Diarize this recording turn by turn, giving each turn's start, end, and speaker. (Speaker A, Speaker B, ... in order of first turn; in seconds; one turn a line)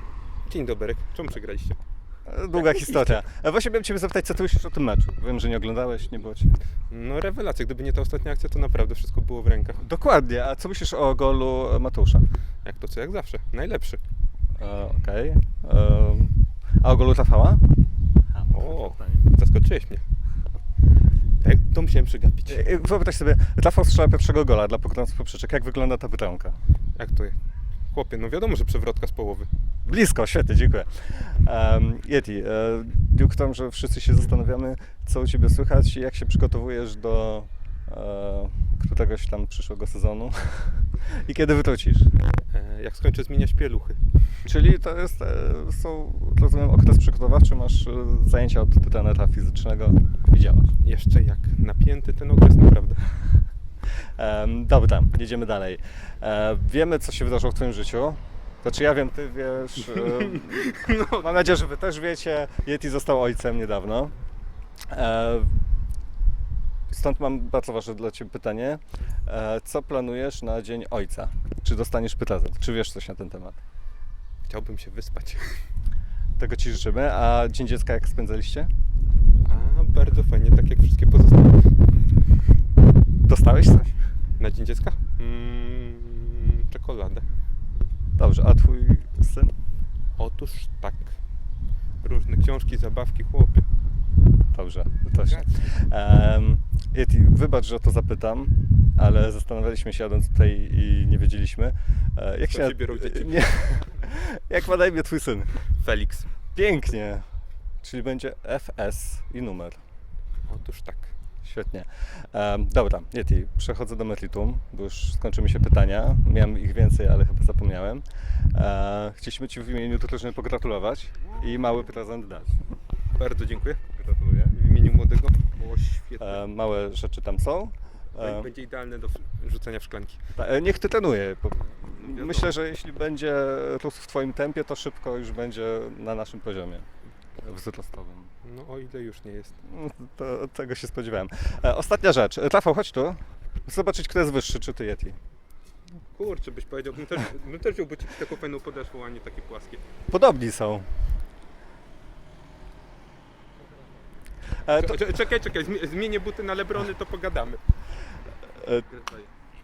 Speaker A: 0.5-1.8
Speaker B: 2.3-6.6
Speaker A: 2.5-3.2
Speaker A: 6.9-9.8
Speaker B: 9.8-12.2
Speaker A: 12.6-14.0
Speaker B: 14.6-17.6
Speaker B: 18.3-19.2
Speaker A: 18.5-20.0
Speaker A: 21.4-22.6
Speaker B: 22.5-26.6
Speaker A: 26.9-27.4
Speaker A: 27.9-29.5
Speaker B: 29.8-42.1
Speaker A: 42.5-44.1
Speaker B: 44.5-50.7
Speaker A: 50.8-53.1
Speaker B: 54.2-64.1
Speaker A: 60.0-61.3
Speaker B: 64.9-65.6
Speaker B: 66.9-73.6
Speaker A: 74.5-75.6
Speaker B: 76.4-78.7
Speaker A: 79.4-81.8
Speaker B: 83.2-84.0
Speaker A: 84.4-87.3
Speaker B: 88.2-89.6
Speaker A: 90.2-91.2
Speaker A: 92.0-93.7
Speaker B: 94.5-105.7
Speaker A: 95.1-95.6
Speaker A: 102.5-103.9
Speaker A: 105.8-106.3
Speaker B: 106.5-107.3
Speaker B: 107.8-109.8
Speaker A: 110.5-111.1
Speaker B: 111.4-122.6
Speaker A: 123.1-123.8
Speaker B: 123.9-124.6
Speaker A: 124.5-126.4
Speaker B: 126.2-128.5
Speaker A: 128.1-130.2
Speaker B: 130.3-138.3
Speaker A: 132.0-132.5
Speaker A: 138.4-139.6
Speaker B: 139.6-145.2
Speaker A: 146.1-149.8
Speaker B: 150.1-150.9
Speaker B: 154.6-155.0
Speaker A: 154.7-157.6
Speaker B: 158.6-158.8
Speaker A: 158.9-159.3